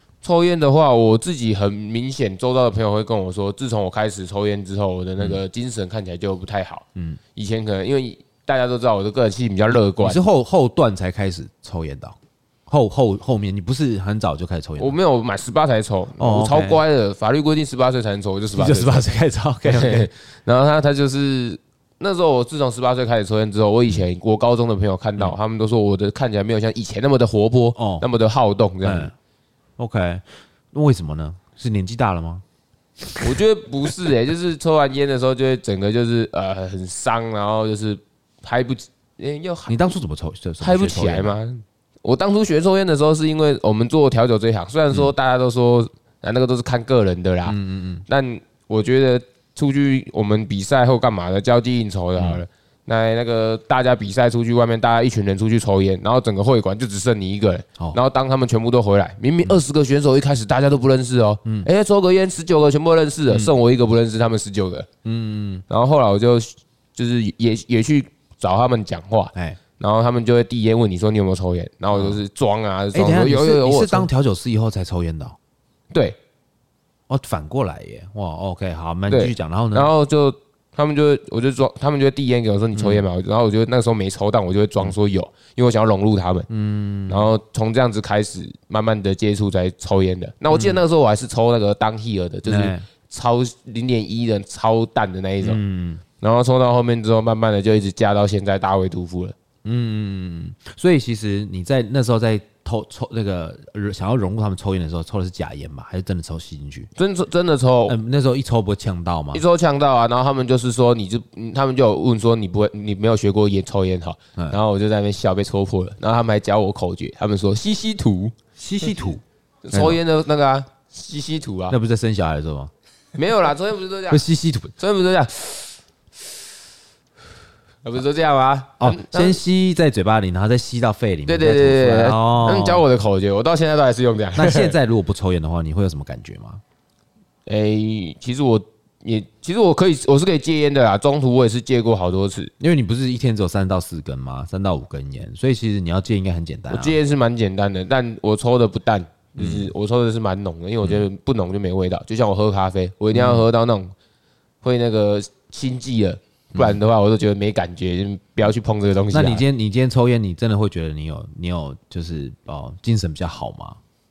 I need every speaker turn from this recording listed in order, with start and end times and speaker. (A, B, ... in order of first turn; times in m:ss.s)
0:00.2-0:10.2 A
0:07.0-0:07.2 B
0:10.0-0:15.0 B
0:14.8-0:19.0 A
0:16.2-0:16.8 B
0:18.5-0:20.1 B
0:19.7-0:29.1 A
0:27.8-0:28.1 B
0:28.8-0:29.1 B
0:29.8-0:32.4 B
0:33.0-0:33.4 B
0:33.2-0:39.8 A
0:39.7-0:41.3 B
0:40.6-1:04.9 A
0:47.5-0:48.0 B
0:52.2-0:52.4 B
1:05.0-1:05.6 B
1:05.7-1:14.1 A
1:11.9-1:12.2 B
1:12.9-1:15.4 B
1:15.9-1:16.2 A
1:17.1-1:19.9 B
1:19.1-1:26.5 A
1:22.8-1:23.0 B
1:26.5-1:27.3 B
1:27.1-1:35.6 A
1:30.5-1:30.8 B
1:32.5-1:32.8 B
1:35.4-1:36.0 B
1:36.2-1:39.4 A
1:39.6-1:46.9 B
1:47.0-1:48.0 A
1:47.9-1:49.4 B
1:49.3-1:58.4 A
1:58.6-2:00.0 B
1:59.7-2:01.8 A
2:01.7-2:02.7 B
2:03.2-2:04.3 A
2:04.1-2:04.7 B
2:04.8-2:05.8 A
2:07.8-2:09.4 A
2:08.8-2:12.8 B
2:11.3-2:14.8 A
2:14.4-2:16.6 B
2:17.5-2:22.5 A
2:22.6-2:27.0 B
2:26.7-2:33.9 A
2:29.4-2:29.7 B
2:33.1-2:33.5 B
2:34.6-2:39.4 A
2:36.5-2:36.8 B
2:39.1-2:43.8 B